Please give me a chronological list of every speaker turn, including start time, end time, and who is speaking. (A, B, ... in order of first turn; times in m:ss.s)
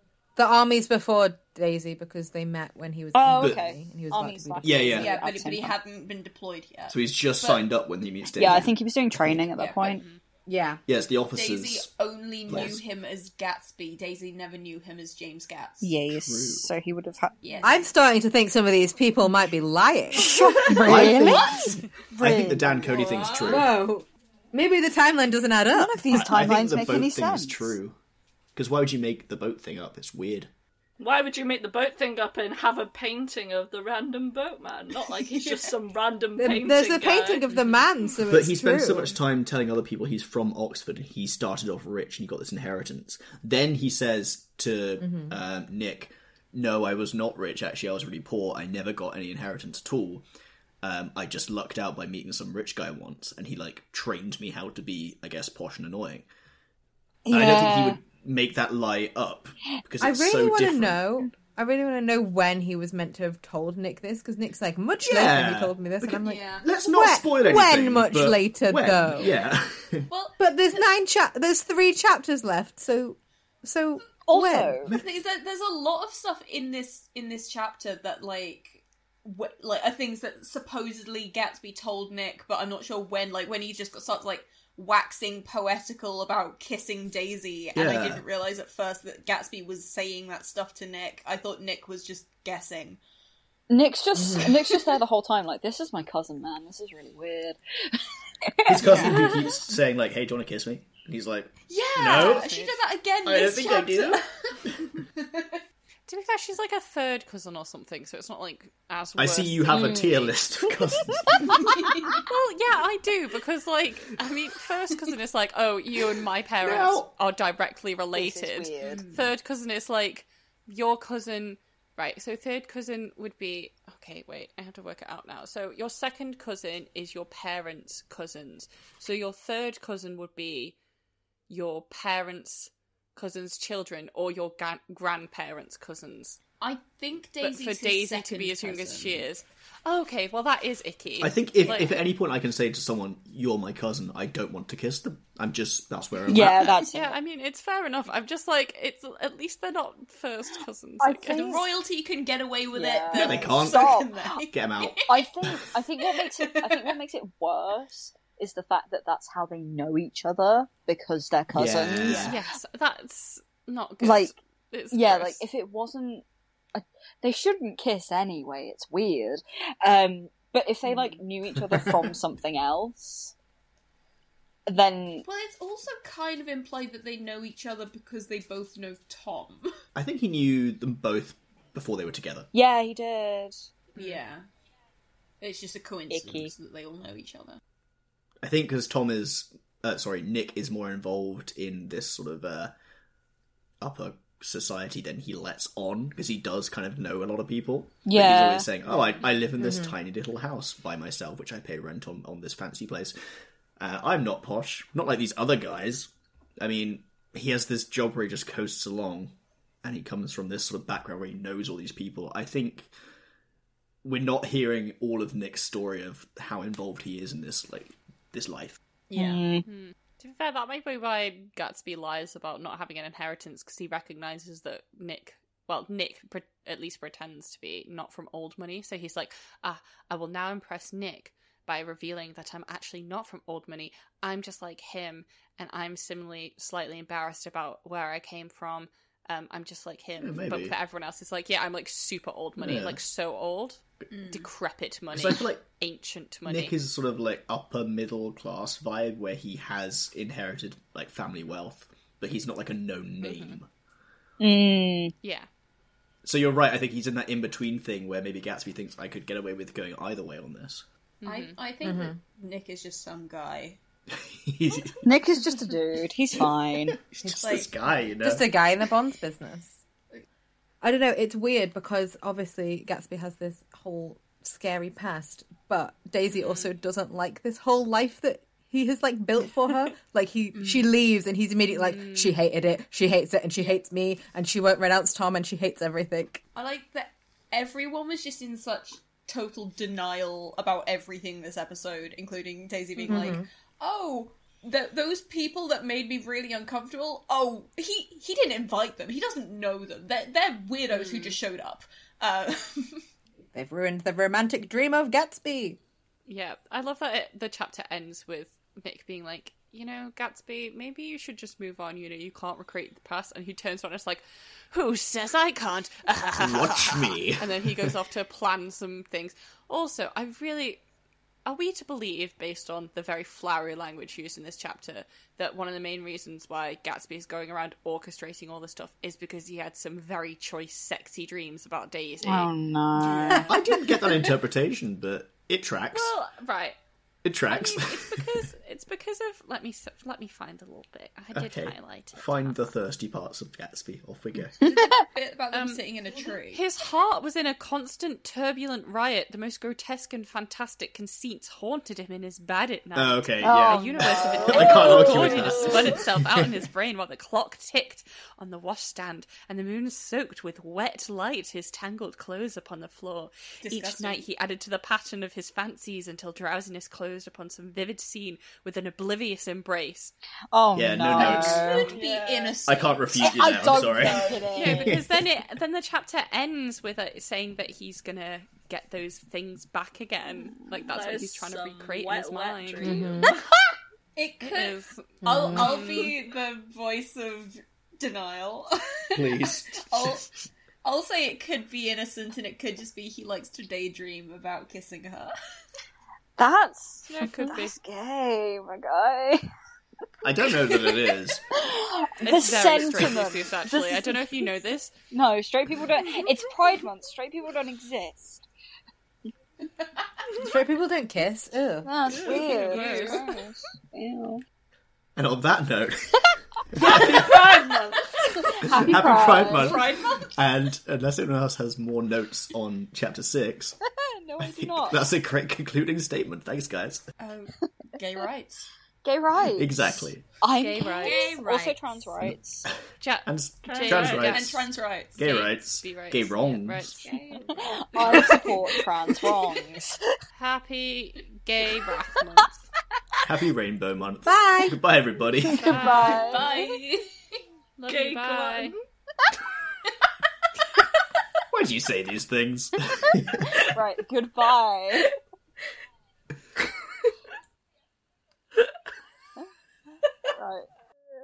0:00.4-0:05.1 A
0:03.1-0:05.8 B
0:03.4-0:03.6 C
0:04.6-0:05.1 C
0:04.9-0:07.7 D
0:06.9-0:09.5 C
0:08.4-0:10.0 B
0:09.5-0:10.0 D
0:09.9-0:10.2 E
0:10.5-0:10.8 A
0:10.9-0:11.9 C
0:11.3-0:16.0 D
0:12.5-0:12.8 C
0:15.8-0:17.3 B
0:16.2-0:16.7 C
0:17.4-0:17.9 D
0:17.6-0:21.5 A
0:20.1-0:23.0 B
0:20.8-0:23.7 C
0:21.3-0:21.7 D
0:22.8-0:23.8 D
0:23.5-0:26.4 A
0:25.7-0:27.8 B
0:26.1-0:28.0 C
0:28.5-0:30.5 C
0:31.0-0:37.5 F
0:35.2-0:35.7 D
0:36.4-0:39.2 A
0:37.5-0:37.8 E
0:38.3-0:50.2 C
0:45.0-0:45.4 A
0:50.8-0:56.2 C
0:57.2-0:58.0 B
0:57.3-1:01.0 C
1:00.0-1:09.3 A
1:05.1-1:10.1 C
1:06.2-1:06.7 D
1:09.2-1:09.5 D
1:10.1-1:10.9 D
1:10.4-1:14.8 A
1:14.2-1:14.9 B
1:14.8-1:15.1 C
1:14.8-1:33.0 D
1:27.7-1:28.2 C
1:33.7-1:39.5 B
1:34.2-1:34.5 A
1:38.6-1:42.5 C
1:41.7-1:44.6 D
1:42.2-1:42.8 E
1:43.2-1:44.9 C
1:45.1-1:45.6 D
1:46.1-1:50.3 E
1:49.2-1:51.7 C
1:49.7-1:50.3 B
1:51.3-1:51.6 B
1:51.6-1:52.2 D
1:52.1-2:10.8 E
1:56.6-1:57.1 C
1:58.1-1:59.0 B
2:11.5-2:16.4 E
2:16.6-2:19.3 D
2:17.4-2:22.0 E
2:21.2-2:26.8 C
2:26.3-2:27.2 B
2:26.8-2:31.6 E
2:31.0-2:31.7 B
2:31.4-2:35.2 D
2:32.7-2:34.4 B
2:33.1-2:34.0 C
2:34.5-2:35.5 C
2:35.0-2:42.4 B
2:36.0-2:36.9 D
2:41.5-2:42.4 C
2:42.1-2:45.4 E
2:44.0-2:44.3 B
2:44.9-2:53.3 B
2:54.7-2:55.2 B
2:55.2-2:59.7 D
2:59.9-3:02.5 C
3:02.5-3:03.6 B
3:03.9-3:04.4 D
3:05.4-3:07.6 D
3:06.1-3:06.5 B
3:08.4-3:12.7 C
3:13.8-3:23.2 C
3:18.0-3:18.7 B
3:18.9-3:19.2 E
3:19.6-3:19.9 A
3:23.8-3:32.9 C
3:34.0-3:38.8 C
3:39.1-3:39.4 D
3:39.1-3:39.6 B
3:39.6-4:06.7 E
4:00.2-4:00.8 C
4:02.6-4:03.0 C
4:04.1-4:04.5 D
4:05.1-4:05.6 C
4:06.4-4:13.7 C
4:13.2-4:13.6 E
4:14.4-4:15.1 B
4:15.2-4:15.5 E
4:16.2-4:20.8 C
4:21.2-4:21.6 E
4:21.2-4:23.8 D
4:21.8-4:22.2 A
4:24.1-4:25.0 C
4:25.0-4:27.0 B
4:27.1-4:28.5 C
4:27.2-4:27.7 D
4:27.3-4:27.6 A
4:28.2-4:29.8 A
4:30.8-4:46.4 A
4:36.4-4:36.7 E
4:40.5-4:40.9 D
4:41.7-4:42.3 E
4:46.5-5:03.0 D
4:53.0-4:53.4 E
4:53.1-4:53.4 A
5:00.9-5:01.4 E
5:03.5-5:05.8 A
5:06.3-5:20.8 E
5:16.4-5:17.9 C
5:21.4-5:33.6 E
5:32.2-5:33.5 B
5:33.3-5:36.1 C
5:35.9-5:36.8 E
5:37.2-5:38.2 C
5:37.4-5:42.7 E
5:41.3-5:44.6 C
5:44.6-5:46.6 D
5:44.6-5:45.0 B
5:45.5-5:45.8 E
5:46.5-6:10.1 E
5:53.0-5:56.5 C
5:53.4-5:55.2 B
5:54.2-5:56.0 F
6:03.6-6:04.2 D
6:10.5-6:12.0 B
6:10.7-6:11.7 C
6:11.1-6:13.5 D
6:11.3-6:12.6 F
6:12.6-6:15.1 C
6:13.2-6:15.0 B
6:13.6-6:14.5 F
6:14.5-6:23.3 E
6:20.9-6:23.4 F
6:22.8-6:23.4 A
6:24.2-6:30.3 D
6:24.4-6:26.2 E
6:25.2-6:25.8 A
6:29.1-6:30.2 C
6:30.8-6:35.3 D
6:36.4-6:39.4 B
6:37.1-6:37.8 E
6:40.2-6:41.4 C
6:41.5-6:44.5 B
6:42.2-6:44.9 E
6:45.1-6:48.5 B
6:50.3-6:51.9 A
6:51.8-6:54.4 B
6:52.1-6:53.2 F
6:52.3-6:53.2 E
6:55.2-6:56.2 C
6:56.7-6:57.7 C
6:56.8-6:58.0 F
6:58.5-7:00.0 B
6:58.7-7:03.8 C
6:59.2-7:00.4 D
7:04.0-7:05.0 B
7:04.4-7:07.0 C
7:07.2-7:08.7 D
7:09.0-7:12.7 B
7:09.6-7:10.2 C
7:10.6-7:11.4 E
7:10.8-7:12.1 D
7:12.2-7:14.6 C
7:13.0-7:14.6 E
7:13.6-7:14.4 F
7:14.2-7:15.2 D
7:15.2-7:17.0 C
7:15.2-7:18.5 E
7:17.0-7:18.3 D
7:17.4-7:20.0 B
7:18.0-7:18.5 F
7:20.3-7:22.6 E
7:23.2-7:25.8 C
7:24.2-7:24.8 A
7:25.4-7:26.6 B
7:25.4-7:26.6 E
7:26.0-7:27.0 D
7:27.8-7:28.7 E
7:27.9-7:28.8 F
7:31.5-7:33.7 C
7:33.4-7:35.1 B
7:40.3-7:40.6 B